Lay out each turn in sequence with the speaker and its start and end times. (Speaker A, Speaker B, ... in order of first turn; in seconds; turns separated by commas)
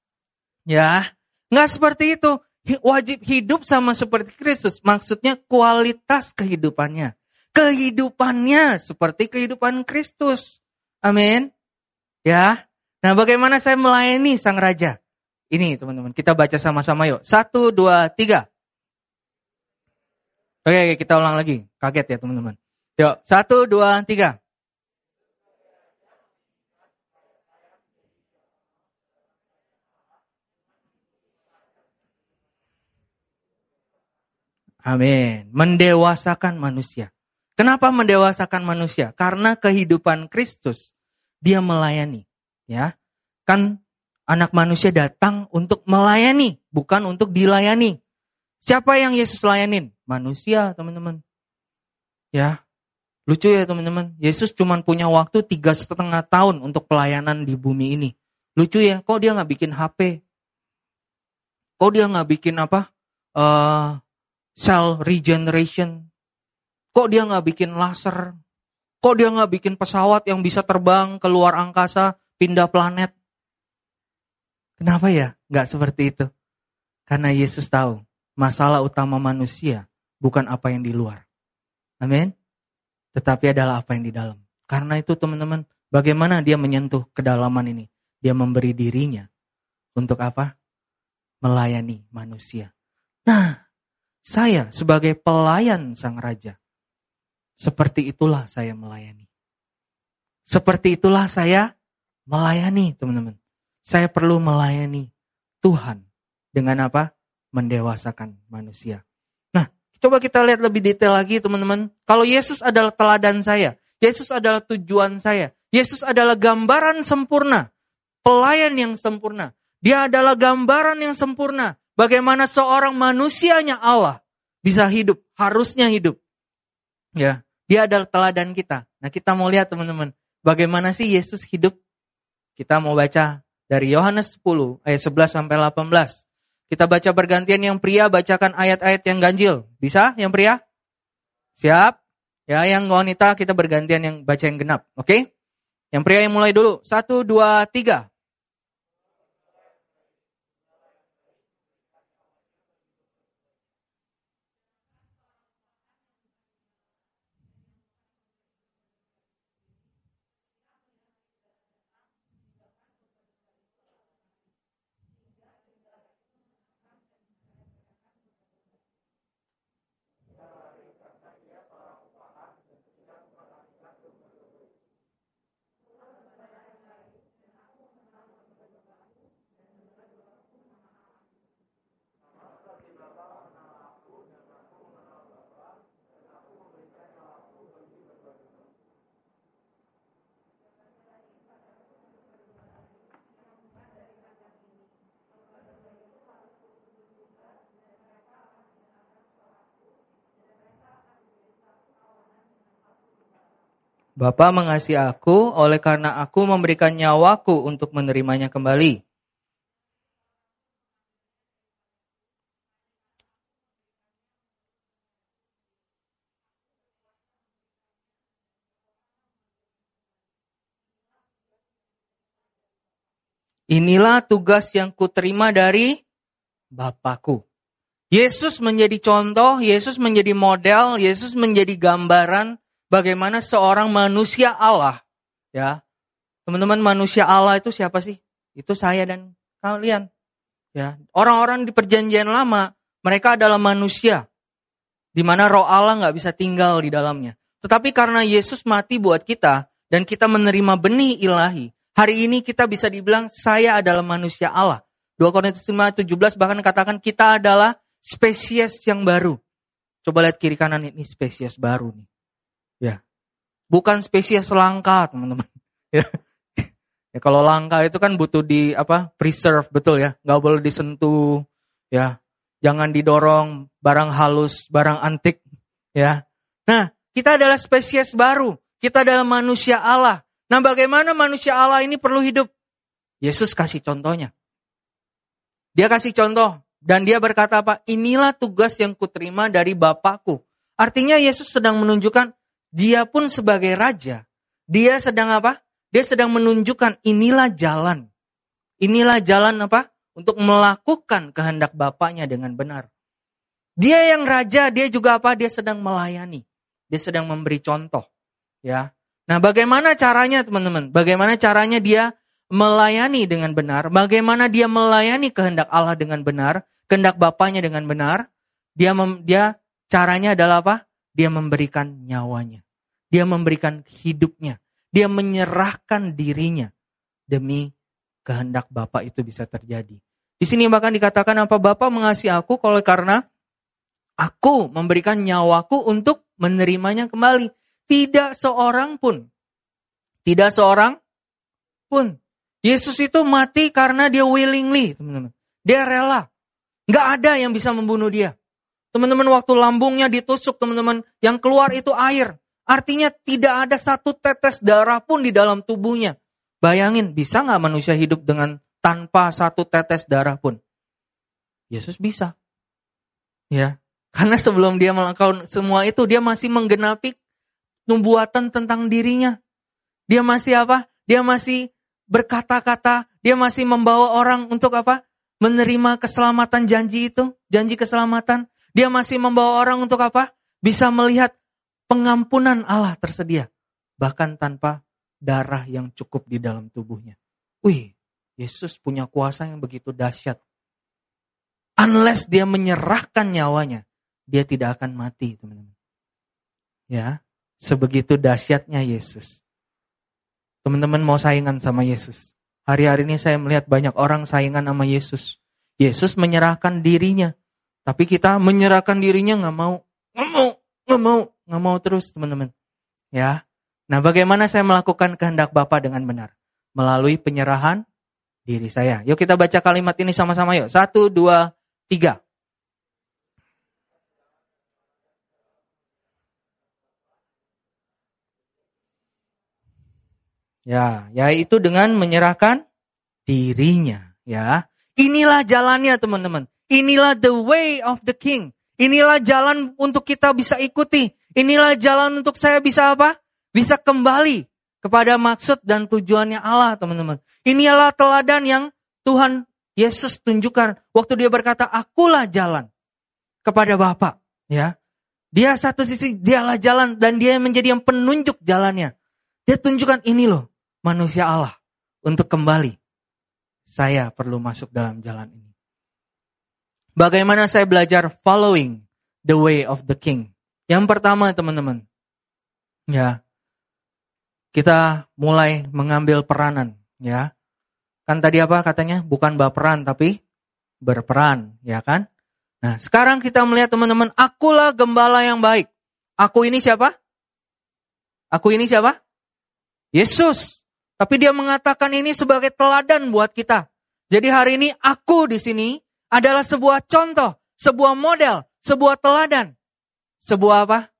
Speaker A: 0.7-11.5, Speaker A: 12.2-14.9, Speaker A: 15.5-18.4, Speaker A: 20.6-24.4, Speaker A: 34.9-40.9, Speaker A: 41.4-42.9, Speaker A: 43.5-43.7, Speaker A: 44.3-48.0, Speaker A: 48.6-51.2, Speaker A: 53.3-60.2, Speaker A: 61.8-62.9, Speaker A: 63.4-64.0, Speaker A: 64.6-66.0, Speaker A: 66.9-68.3, Speaker A: 69.0-73.1, Speaker A: 74.8-76.3, Speaker A: 77.1-81.2, Speaker A: 82.0-82.3, Speaker A: 83.1-89.3, Speaker A: 90.0-90.5, Speaker A: 91.4-92.7, Speaker A: 93.3-93.5, Speaker A: 94.3-96.5, Speaker A: 97.6-99.2, Speaker A: 100.5-101.7, Speaker A: 102.3-103.4, Speaker A: 103.9-105.1, Speaker A: 105.6-106.0, Speaker A: 106.5-109.0, Speaker A: 109.5-117.7, Speaker A: 118.2-126.2, Speaker A: 127.2-131.7, Speaker A: 132.6-140.6, Speaker A: 141.6-141.9, Speaker A: 142.5-145.2, Speaker A: 145.9-148.1, Speaker A: 204.2-209.0, Speaker A: 223.7-225.9, Speaker A: 226.7-227.4, Speaker A: 228.1-235.0, Speaker A: 236.5-240.1, Speaker A: 240.7-244.2, Speaker A: 245.2-259.4, Speaker A: 260.0-262.1, Speaker A: 263.7-275.4, Speaker A: 275.9-282.5, Speaker A: 283.2-284.3, Speaker A: 285.8-298.0, Speaker A: 298.8-302.9, Speaker A: 303.8-308.1, Speaker A: 308.6-318.2, Speaker A: 318.8-322.6, Speaker A: 323.1-326.7, Speaker A: 327.3-327.7, Speaker A: 328.2-333.2, Speaker A: 334.2-339.2, Speaker A: 340.2-340.9, Speaker A: 342.6-346.2, Speaker A: 346.9-348.3, Speaker A: 348.9-360.6, Speaker A: 361.7-362.3, Speaker A: 363.5-367.1, Speaker A: 367.9-369.4, Speaker A: 370.1-381.3, Speaker A: 381.9-383.5, Speaker A: 384.0-390.4, Speaker A: 391.8-395.7, Speaker A: 396.9-399.4, Speaker A: 400.6-407.3, Speaker A: 407.9-412.5, Speaker A: 413.9-417.8, Speaker A: 418.5-422.2, Speaker A: 430.7-432.6, Speaker A: 433.3-452.7, Speaker A: 453.4-454.7, Speaker A: 455.4-458.9, Speaker A: 459.5-462.8, Speaker A: 463.7-465.5, Speaker A: 467.0-471.8, Speaker A: 472.9-473.2, Speaker A: 474.5-477.3, Speaker A: 478.1-480.1, Speaker A: 480.8-482.0, Speaker A: 482.6-485.7, Speaker A: 486.2-486.9, Speaker A: 488.3-489.0, Speaker A: 489.9-499.5, Speaker A: 500.2-500.9